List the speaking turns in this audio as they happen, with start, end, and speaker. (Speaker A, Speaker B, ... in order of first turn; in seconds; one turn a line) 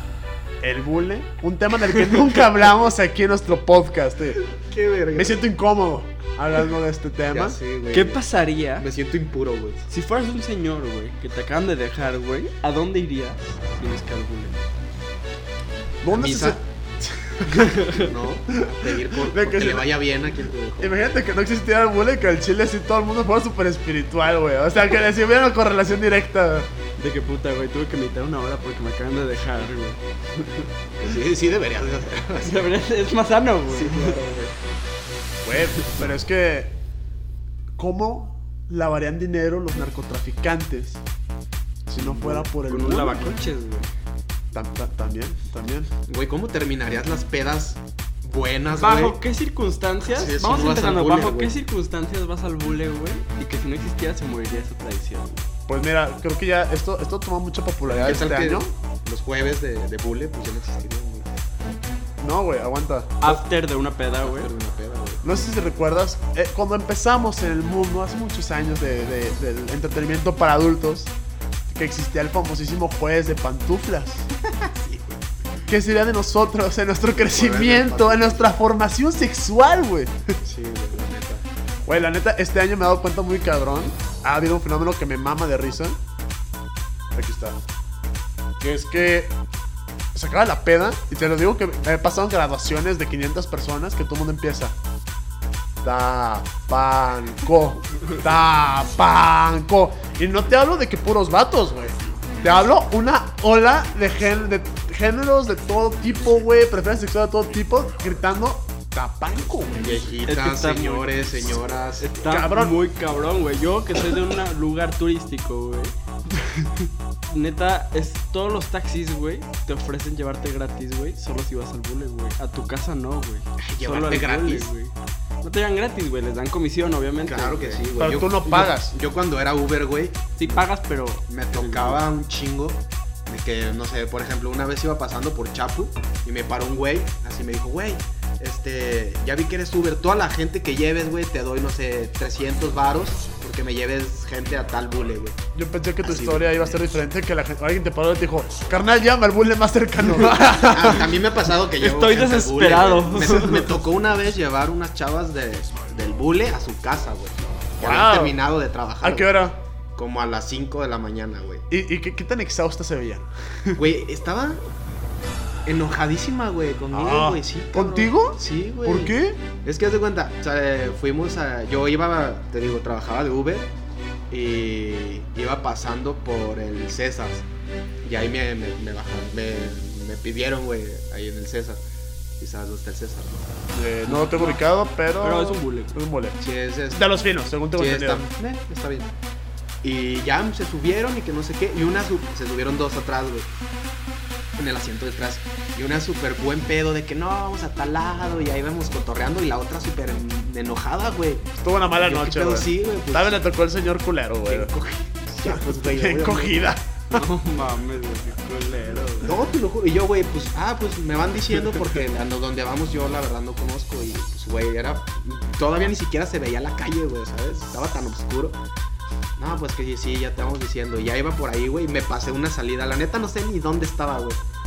Speaker A: 0.6-4.4
Speaker B: 4.5-5.4
Speaker A: 5.1-7.6
Speaker B: 7.3-8.2
Speaker C: 7.9-8.9
Speaker B: 8.8-9.8
Speaker C: 9.9-14.6
Speaker A: 16.0-17.7
Speaker B: 16.1-16.6
Speaker C: 17.5-18.1
Speaker B: 17.9-20.9
Speaker A: 18.5-19.9
Speaker A: 20.8-26.7
Speaker C: 27.0-30.7
Speaker B: 31.0-32.7
Speaker C: 32.4-34.5
Speaker B: 33.7-34.4
Speaker A: 35.4-36.7
Speaker A: 37.8-41.0
Speaker A: 41.9-43.4
Speaker C: 42.0-43.9
Speaker A: 44.5-45.9
Speaker B: 46.1-49.2
Speaker C: 48.8-55.5
Speaker B: 50.0-51.5
Speaker A: 55.7-58.7
Speaker B: 57.8-61.4
Speaker A: 62.2-63.4
Speaker C: 63.2-64.5
Speaker B: 64.2-65.2
Speaker A: 65.2-71.1
Speaker A: 71.7-74.3
Speaker B: 74.4-75.3
Speaker A: 75.7-80.3
Speaker B: 77.2-78.5
Speaker B: 80.4-81.4
Speaker A: 81.8-86.0
Speaker A: 87.1-87.6
Speaker A: 88.6-89.3
Speaker A: 90.1-94.8
Speaker A: 95.8-110.2
Speaker B: 109.8-112.1
Speaker C: 110.3-127.8
Speaker A: 112.2-112.8
Speaker B: 123.6-124.7
Speaker B: 127.2-130.6
Speaker A: 128.0-128.9
Speaker C: 130.4-132.0
Speaker B: 131.3-145.4
Speaker A: 145.5-151.1
Speaker B: 146.0-147.0
Speaker B: 150.2-159.3
Speaker C: 151.8-153.7
Speaker A: 157.8-158.3
Speaker A: 159.0-159.6
Speaker B: 159.9-161.6
Speaker A: 161.7-163.8
Speaker B: 163.8-164.6
Speaker B: 165.6-173.7
Speaker A: 166.9-169.4
Speaker B: 174.3-177.4
Speaker B: 178.0-181.8
Speaker B: 182.4-183.5
Speaker A: 183.7-186.4
Speaker C: 184.1-184.6
Speaker C: 185.2-185.9
Speaker B: 186.4-187.1
Speaker A: 186.9-188.3
Speaker B: 187.7-189.1
Speaker B: 189.8-193.5
Speaker B: 194.6-203.4
Speaker A: 201.5-204.7
Speaker B: 204.5-206.7
Speaker A: 205.4-207.0
Speaker C: 207.1-209.4
Speaker B: 209.2-218.6
Speaker B: 219.4-224.4